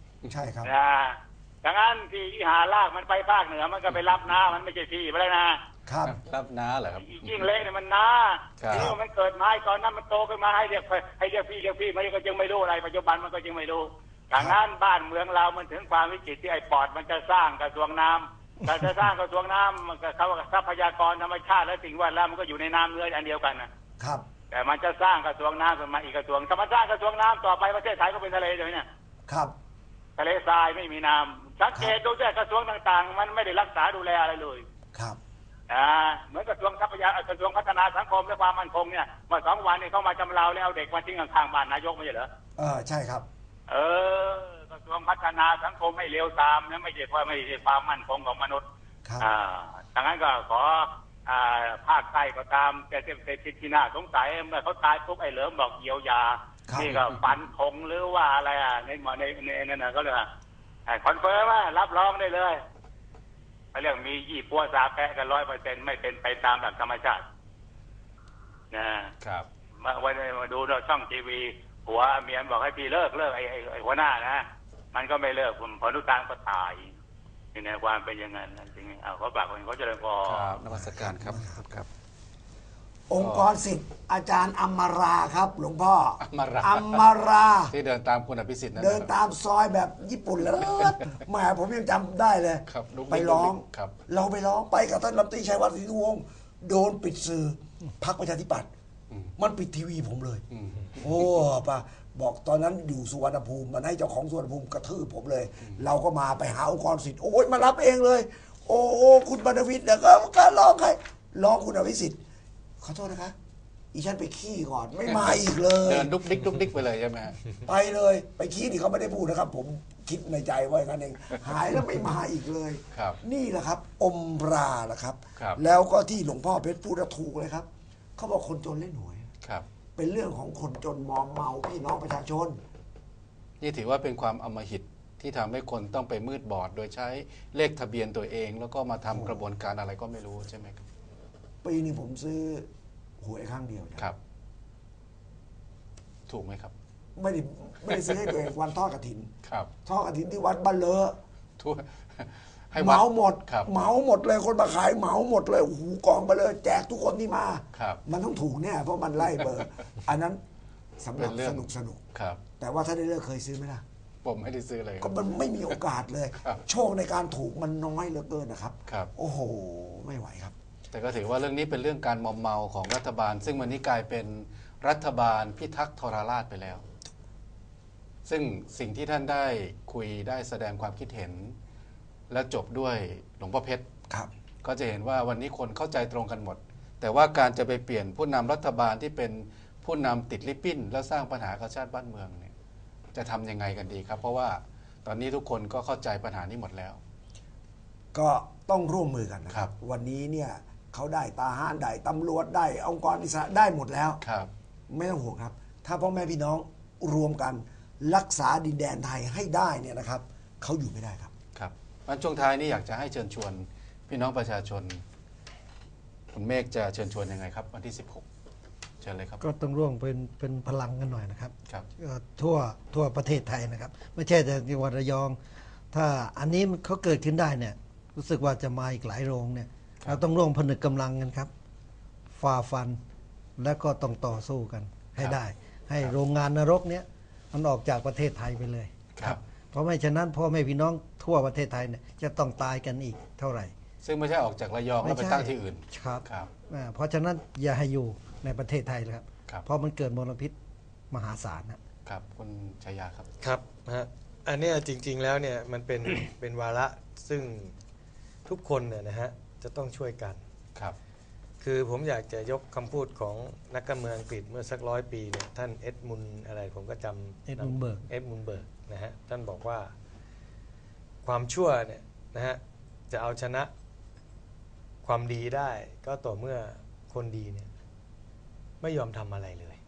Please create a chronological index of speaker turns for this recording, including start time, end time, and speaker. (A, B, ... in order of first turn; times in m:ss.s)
0:00.3-0:00.7 A
0:00.6-0:05.6 B
0:05.9-0:06.2 A
0:06.0-0:07.5 C
0:07.0-0:23.7 B
0:08.6-0:09.0 C
0:08.7-0:09.0 A
0:24.0-0:24.2 A
0:24.5-0:28.8 B
0:29.3-0:29.5 A
0:30.2-0:34.6 B
0:35.7-0:42.3 B
0:42.6-0:43.3 A
0:43.7-0:48.6 B
0:49.2-1:00.3 B
0:56.7-0:57.0 A
1:00.9-1:02.6 B
1:03.7-1:07.2 B
1:08.7-1:09.1 B
1:09.2-1:09.5 C
1:09.8-1:16.9 B
1:17.5-1:20.6 B
1:20.2-1:21.9 C
1:20.7-1:21.7 A
1:23.1-1:27.8 A
1:23.2-1:23.5 C
1:26.2-1:27.0 C
1:27.7-1:29.1 C
1:28.8-1:38.7 A
1:32.7-1:33.9 C
1:39.4-1:40.4 A
1:40.5-1:41.1 C
1:41.0-1:52.2 A
1:52.8-1:53.4 A
1:53.9-1:56.1 A
1:55.1-1:57.4 C
1:57.6-2:09.3 A
2:02.9-2:03.2 C
2:10.0-2:12.6 A
2:13.6-2:20.8 C
2:19.1-2:19.4 A
2:21.6-2:22.7 A
2:23.2-2:24.1 A
2:26.3-2:26.7 C
2:27.2-2:29.3 A
2:27.9-2:28.3 C
2:29.4-2:29.7 C
2:29.9-2:31.2 A
2:31.6-2:33.7 C
2:32.8-2:40.4 A
2:37.7-2:38.0 C
2:41.0-2:42.0 A
2:41.2-2:42.4 C
2:42.6-2:43.8 A
2:44.2-2:45.1 C
2:45.0-2:50.6 A
2:50.9-2:56.8 C
2:58.3-3:01.6 C
3:02.3-3:03.9 C
3:04.6-3:12.5 C
3:13.1-3:17.0 C
3:18.1-3:24.2 A
3:24.2-3:24.5 C
3:24.9-3:31.3 A
3:31.6-3:35.0 C
3:36.3-3:38.2 C
3:39.0-3:39.4 C
3:39.4-3:45.4 D
3:45.9-3:51.5 D
3:52.3-3:53.0 D
3:53.6-4:03.7 D
3:59.2-3:59.4 C
4:04.0-4:06.5 C
4:05.0-4:10.6 D
4:11.1-4:11.8 D
4:12.1-4:13.3 C
4:13.4-4:17.8 E
4:18.4-4:20.4 E
4:21.6-4:27.5 E
4:27.4-4:28.1 D
4:28.1-4:30.0 E
4:31.2-4:33.7 E
4:35.0-4:37.7 E
4:38.8-4:39.8 E